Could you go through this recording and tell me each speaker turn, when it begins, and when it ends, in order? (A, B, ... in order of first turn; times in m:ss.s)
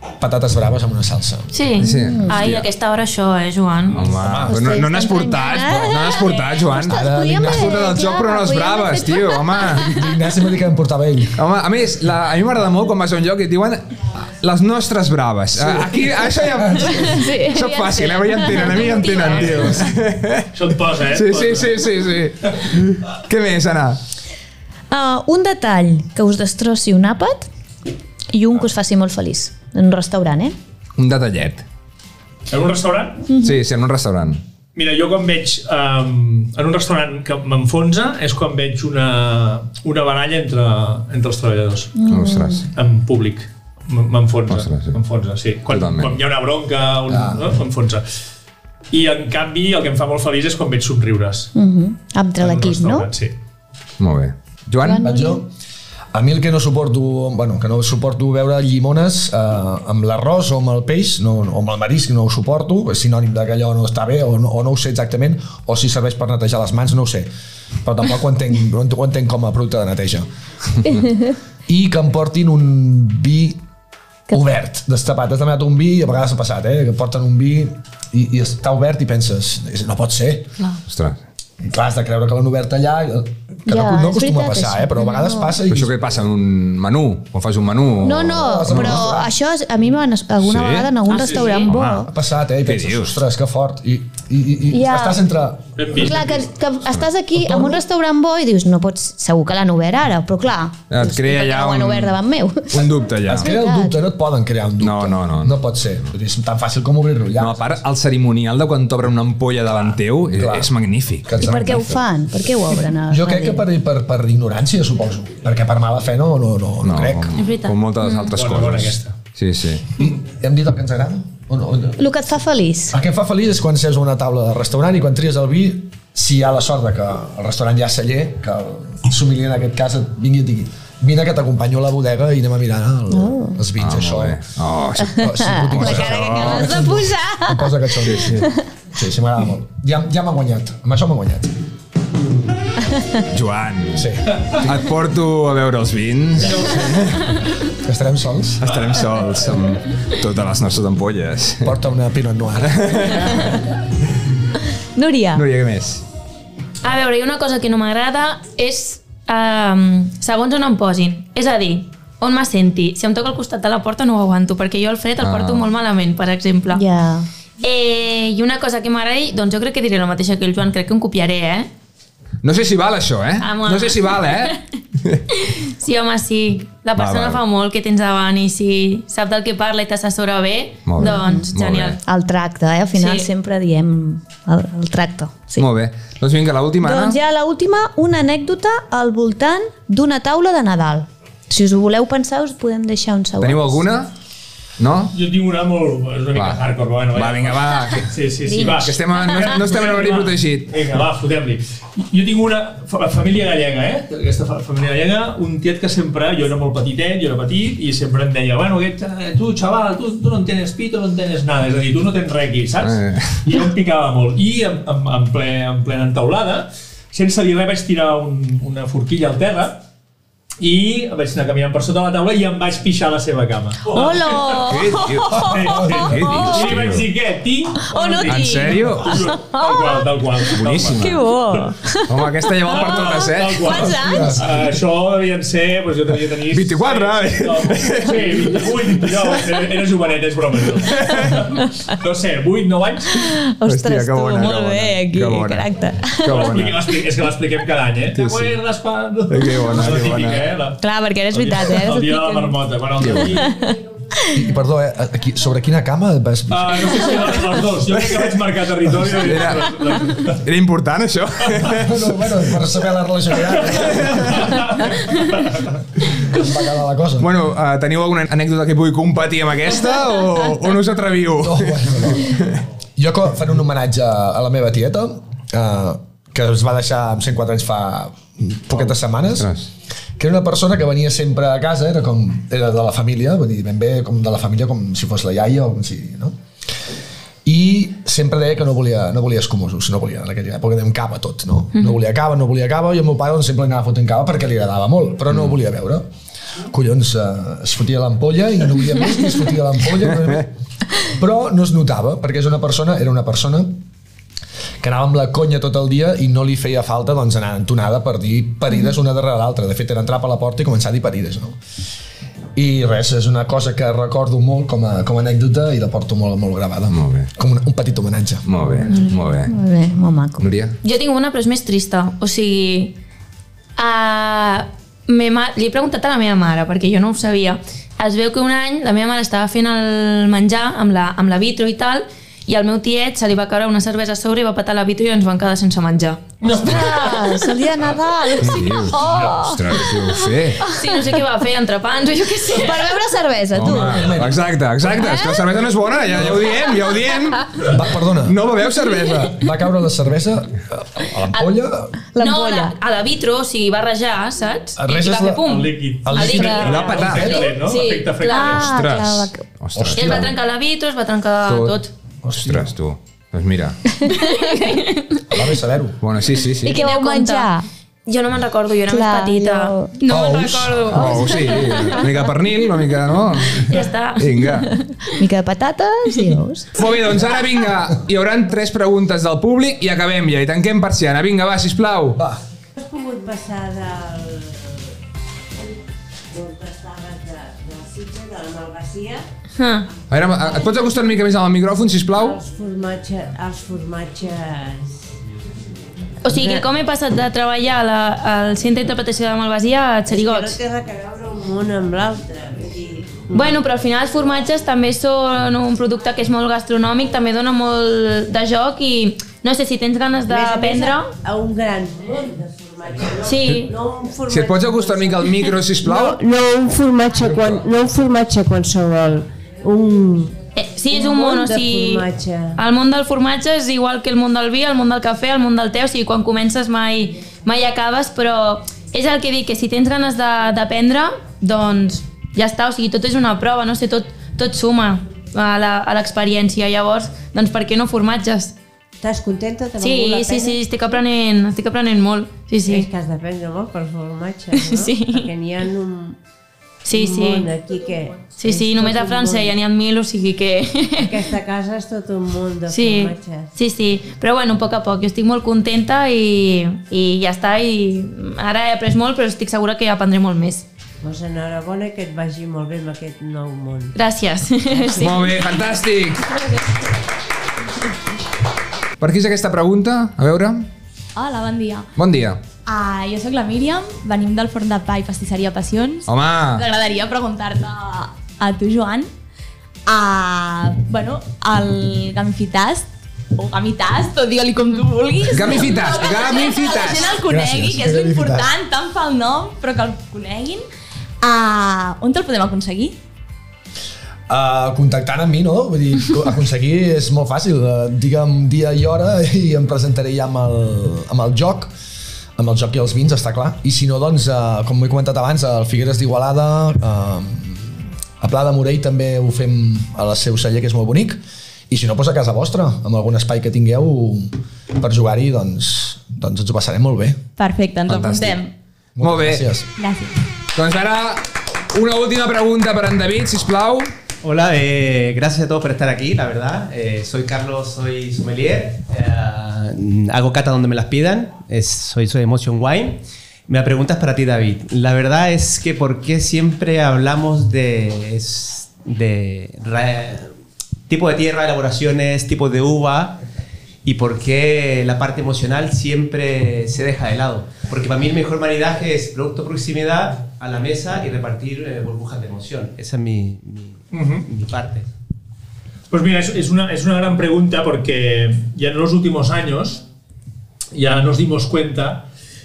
0:00.2-0:01.5 A
0:01.5-0:04.0 B
0:01.8-0:02.7 C
0:01.8-0:02.4 D
0:03.9-0:10.0 C
0:03.9-0:04.7 A
0:04.4-0:09.7 D
0:06.8-0:07.9 A
0:09.8-0:11.4 A
0:11.4-0:20.5 C
0:15.6-0:16.0 A
0:17.1-0:17.6 D
0:17.5-0:19.6 B
0:20.5-0:22.0 E
0:21.0-0:24.0 C
0:24.9-0:27.5 D
0:28.3-0:30.5 D
0:31.0-0:31.6 C
0:32.5-0:33.2 E
0:33.3-0:33.6 D
0:33.4-0:34.4 C
0:34.7-0:41.9 E
0:42.0-0:42.6 D
0:42.1-0:42.7 C
0:42.7-0:48.0 E
0:44.5-0:45.0 C
0:45.7-0:46.2 C
0:47.1-0:47.5 A
0:48.9-0:51.5 E
0:51.5-0:53.1 D
0:52.4-0:53.3 E
0:54.0-0:55.1 C
0:54.8-0:55.4 D
0:55.0-0:55.5 A
0:56.1-1:07.3 A
1:07.8-1:10.3 A
1:11.7-1:13.6 A
1:14.3-1:20.5 A
1:20.8-1:21.2 C
1:21.6-1:25.9 A
1:23.7-1:25.5 D
1:25.7-1:29.0 C
1:28.0-1:32.1 D
1:28.3-1:29.3 A
1:30.4-1:30.9 C
1:31.1-1:31.7 B
1:31.1-1:31.5 E
1:31.6-1:32.1 C
1:32.0-1:36.0 A
1:32.6-1:33.2 C
1:34.7-1:35.2 D
1:35.8-1:36.4 E
1:35.9-1:44.0 D
1:37.4-1:37.8 A
1:40.9-1:42.2 C
1:42.7-1:43.5 C
1:43.2-1:47.8 A
1:44.8-1:45.6 C
1:47.4-1:51.8 C
1:50.3-1:50.7 A
1:51.2-1:52.0 A
1:51.4-1:53.6 D
1:53.1-1:57.4 A
1:56.8-1:59.9 C
1:57.3-1:58.3 B
1:58.3-1:59.2 E
2:00.0-2:02.0 A
2:02.0-2:03.0 D
2:02.9-2:14.4 A
2:13.1-2:13.6 D
2:13.8-2:16.9 C
2:15.1-2:21.5 A
2:15.1-2:18.6 D
2:18.0-2:18.5 C
2:23.3-2:27.4 C
2:23.9-2:24.5 A
2:26.4-2:26.9 A
2:26.4-2:26.8 E
2:27.7-2:28.7 A
2:28.6-2:31.7 C
2:31.6-2:33.5 A
2:32.7-2:33.6 C
2:34.9-2:35.4 D
2:35.3-2:36.0 C
2:36.8-2:46.8 B
2:45.2-2:45.7 C
2:46.7-2:47.3 D
2:47.6-2:51.7 B
2:52.4-2:55.2 C
2:53.4-2:54.5 B
2:55.4-3:02.0 B
2:57.0-2:57.4 C
3:00.8-3:02.0 C
3:01.0-3:01.4 D
3:02.0-3:05.7 D
3:02.9-3:03.3 B
3:05.6-3:07.2 C
3:06.8-3:13.8 D
3:13.4-3:14.1 C
3:14.8-3:15.1 C
3:15.1-3:39.8 E
3:16.3-3:16.6 C
3:17.1-3:20.7 C
3:18.5-3:18.8 D
3:32.8-3:33.4 C
3:40.6-3:44.7 E
3:43.9-3:46.7 D
3:44.6-3:47.0 C
3:45.3-3:51.2 E
3:47.8-3:50.0 D
3:48.2-3:49.3 C
3:50.6-3:51.2 C
3:50.9-3:54.4 D
3:52.1-3:54.0 C
3:52.6-4:03.2 E
3:53.9-3:54.6 A
3:56.5-3:59.4 C
4:00.8-4:01.4 C
4:03.2-4:06.5 D
4:03.6-4:05.7 C
4:06.2-4:06.8 C
4:06.2-4:10.8 E
4:08.1-4:08.6 C
4:09.3-4:10.5 C
4:10.8-4:12.5 D
4:11.3-4:13.5 E
4:13.0-4:13.4 C
4:13.1-4:14.4 D
4:14.3-4:17.3 A
4:16.5-4:20.4 E
4:19.1-4:22.1 C
4:21.7-4:24.6 A
4:23.8-4:25.4 E
4:23.9-4:24.5 C
4:26.1-4:27.3 A
4:27.2-4:32.6 C
4:31.4-4:32.4 A
4:33.0-4:39.5 A
4:39.4-4:39.7 C
4:40.2-4:46.3 A
4:47.4-4:56.1 A
4:56.7-5:00.5 A
5:01.0-5:03.8 A
5:04.8-5:11.6 A
5:12.5-5:18.4 A
5:16.9-5:17.3 C
5:18.4-5:19.5 C
5:18.9-5:19.2 B
5:19.5-5:20.4 D
5:20.4-5:20.8 C
5:20.8-5:22.9 B
5:23.8-5:36.4 B
5:36.4-5:40.8 D
5:38.4-5:40.7 C
5:40.6-5:43.0 B
5:42.5-5:44.1 D
5:43.5-5:47.7 C
5:43.6-5:44.5 A
5:44.9-5:45.4 D
5:47.6-5:48.4 A
5:48.2-5:49.4 C
5:49.3-5:52.0 A
5:52.1-5:52.7 D
5:52.2-5:58.7 B
5:54.8-5:57.5 A
5:55.4-5:58.7 E
5:56.5-5:57.4 C
5:58.2-5:59.4 D
5:58.5-6:00.3 C
5:59.7-6:00.3 A
5:59.9-6:01.9 B
6:01.4-6:01.7 C
6:02.2-6:02.7 A
6:02.3-6:03.8 C
6:04.0-6:04.5 D
6:04.1-6:05.4 B
6:05.3-6:06.0 A
6:06.0-6:06.8 C
6:06.6-6:07.5 B
6:06.6-6:07.6 D
6:08.0-6:12.0 B
6:08.9-6:10.0 D
6:10.1-6:10.9 A
6:10.8-6:14.7 C
6:10.9-6:11.9 D
6:13.6-6:14.3 B
6:15.1-6:16.7 D
6:16.8-6:22.2 C
6:22.2-6:22.4 A
6:22.8-6:24.9 F
6:26.3-6:29.2 F
6:29.6-6:29.9 B
6:30.1-6:32.4 C
6:32.1-6:35.1 F
6:36.2-6:40.6 B
6:36.3-6:36.7 F
6:40.1-6:43.6 F
6:43.3-6:51.1 B
6:50.3-7:00.4 F
6:53.2-6:53.7 B
6:54.3-6:56.2 C
7:00.6-7:02.0 B
7:00.9-7:02.6 F
7:02.6-7:18.5 B
7:19.0-7:20.6 F
7:19.8-7:22.9 B
7:22.6-7:26.2 F
7:24.6-7:25.3 B
7:26.8-7:27.5 B
7:26.9-7:29.6 F
7:28.4-7:31.2 B
7:31.0-7:33.5 F
7:32.7-7:40.6 B
7:41.0-7:44.0 F
7:44.0-7:45.1 B
7:44.7-7:45.2 F
7:45.0-7:46.2 C
7:49.0-7:50.7 C
7:51.1-7:51.9 G
7:52.0-7:52.4 C
7:52.6-7:59.1 G
7:56.1-7:56.6 C
7:59.8-8:10.6 G
8:05.3-8:07.2 C
8:07.2-8:08.5 A
8:11.2-8:13.0 G
8:14.3-8:21.7 A
8:22.4-8:37.2 A
8:37.4-8:38.5 G
8:37.9-8:38.4 C
8:39.0-8:39.7 A
8:39.0-8:39.4 C
8:39.8-8:40.2 G
8:40.5-8:43.9 C
8:44.2-9:00.3 H
9:00.9-9:03.2 H
9:03.8-9:14.9 H
9:13.9-9:14.3 E
9:15.9-9:19.8 E
9:20.7-9:22.0 E